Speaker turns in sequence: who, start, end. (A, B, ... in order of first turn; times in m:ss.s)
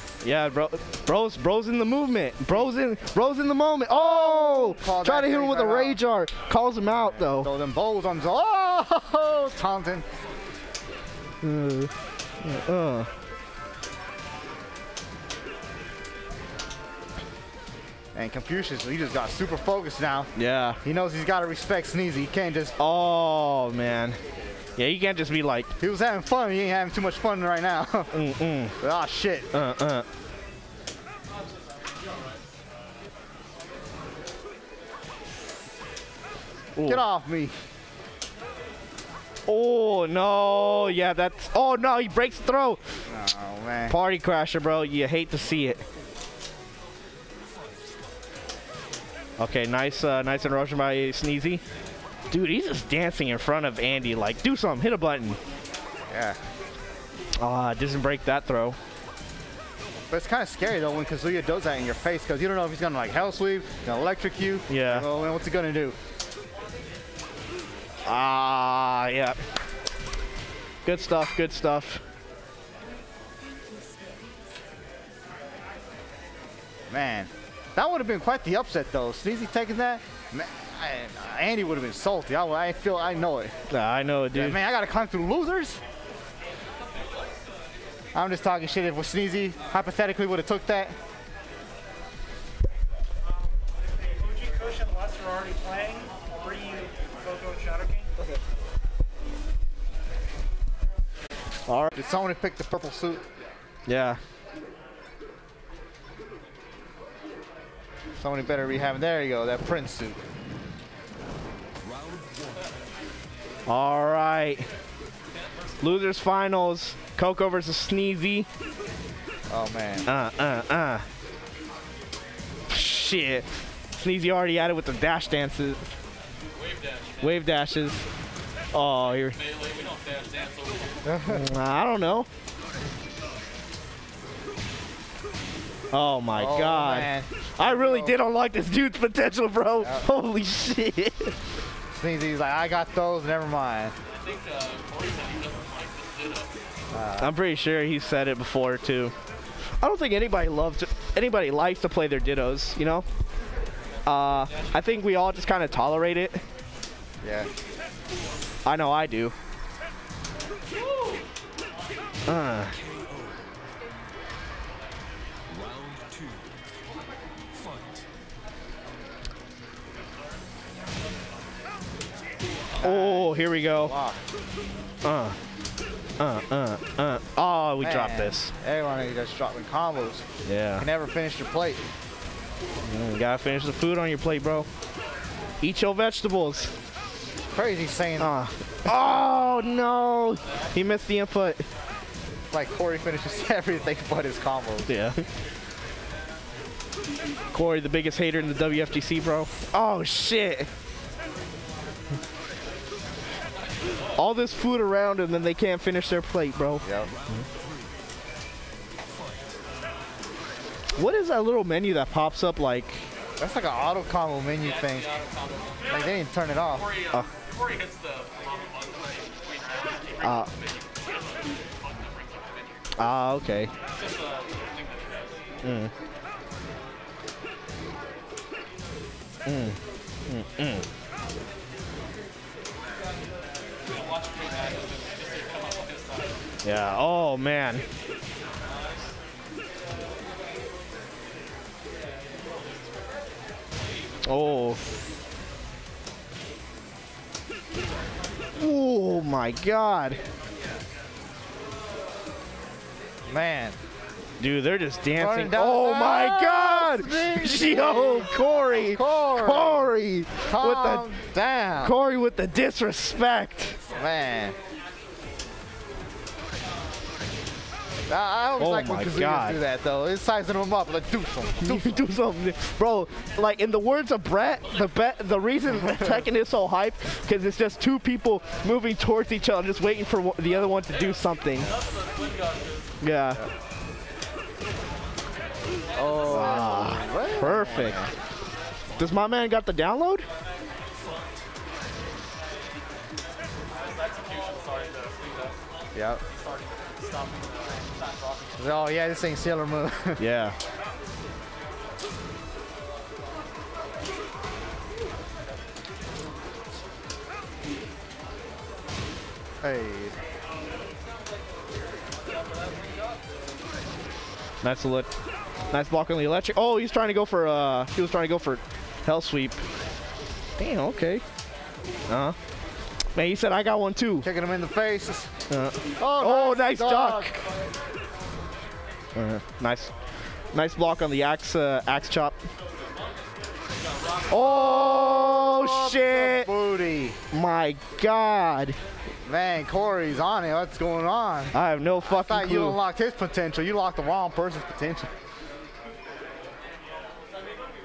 0:00.2-0:07.5 A
0:03.9-0:06.0 B
0:06.9-0:10.0 B
0:11.4-0:11.9 A
0:12.4-0:13.1 A
0:18.1-0:20.3 B
0:20.4-0:20.8 A
0:20.8-0:22.7 B
0:22.8-0:24.2 A
0:24.8-0:25.7 A
0:25.8-0:28.1 B
0:28.1-0:28.8 A
0:28.8-0:29.5 B
0:29.5-0:30.0 A
0:36.8-0:37.0 A
0:36.8-0:37.5 B
0:39.5-0:42.8 A
0:43.1-0:44.0 B
0:43.9-0:45.8 A
0:49.4-0:51.6 A
0:52.3-0:55.4 A
0:56.1-0:56.4 B
0:57.4-0:58.8 A
1:00.1-1:06.0 B
1:04.7-1:05.1 A
1:08.0-1:09.4 A
1:10.8-1:12.0 A
1:16.9-1:23.5 B
1:23.7-1:24.6 A
1:24.3-1:25.8 B
1:28.1-1:31.0 B
1:34.0-1:38.1 C
1:41.7-1:41.9 A
1:41.9-1:43.2 B
1:43.8-1:44.2 A
1:48.2-1:50.2 B
1:53.7-1:54.6 A
1:55.8-1:58.5 A
1:59.5-2:00.0 B
2:00.0-2:01.0 A
2:02.7-2:05.8 A
2:06.5-2:07.4 D
2:07.2-2:08.0 A
2:08.7-2:09.4 A
2:09.2-2:11.0 D
2:11.0-2:11.5 B
2:11.3-2:12.3 A
2:15.9-2:21.3 A
2:16.3-2:18.2 B
2:21.9-2:23.9 B
2:24.2-2:26.5 D
2:26.9-2:27.3 B
2:27.2-2:29.1 A
2:29.8-2:33.0 A
2:34.0-2:36.4 A
2:34.5-2:34.8 D
2:37.2-2:37.5 B
2:38.6-2:39.3 A
2:42.3-2:42.8 A
2:52.8-2:53.9 A
2:52.8-2:54.2 B
2:55.0-2:55.4 A
2:56.2-2:58.5 A
2:57.8-3:00.2 B
3:00.4-3:00.8 A
3:00.8-3:01.8 B
3:02.8-3:04.7 A
3:05.6-3:06.7 A
3:07.5-3:08.3 B
3:08.2-3:11.6 A
3:12.5-3:14.9 B
3:14.9-3:15.2 A
3:17.5-3:20.7 A
3:24.2-3:26.8 A
3:26.8-3:27.1 B
3:31.0-3:33.0 A
3:33.4-3:35.0 B
3:34.6-3:36.1 D
3:35.9-3:36.8 B
3:36.7-3:42.9 D
3:40.2-3:40.5 A
3:43.0-3:43.7 A
3:43.9-3:45.4 D
3:45.6-3:45.9 A
3:49.4-3:50.8 A
3:53.9-3:56.3 D
3:56.6-3:57.8 A
4:04.2-4:04.8 A
4:08.6-4:10.2 A
4:13.3-4:13.8 B
4:14.4-4:21.0 A
4:15.2-4:18.3 B
4:18.9-4:19.9 B
4:20.5-4:21.9 B
4:21.8-4:23.8 A
4:24.0-4:24.6 B
4:28.1-4:32.0 B
4:28.6-4:29.6 A
4:31.6-4:41.7 A
4:40.9-4:42.9 D
4:43.0-4:43.4 A
4:46.0-4:46.8 D
4:46.0-4:48.1 B
4:46.3-4:48.1 A
4:49.0-4:50.2 A
4:53.7-4:55.6 D
4:55.9-4:56.2 B
4:56.3-4:58.7 D
4:58.6-5:00.2 B
5:00.2-5:00.6 A
5:09.6-5:10.1 B
5:12.5-5:12.9 D
5:14.6-5:15.1 A
5:15.7-5:19.6 A
5:20.6-5:21.2 A
5:22.1-5:22.4 A
5:23.1-5:24.3 A
5:24.2-5:25.3 B
5:25.5-5:27.3 A
5:26.0-5:27.4 B
5:29.1-5:29.9 A
5:30.5-5:32.4 A
5:33.8-5:34.6 D
5:34.3-5:36.5 A
5:34.8-5:37.2 B
5:37.3-5:38.8 A
5:39.3-5:41.5 B
5:41.5-5:42.8 A
5:42.0-5:45.1 B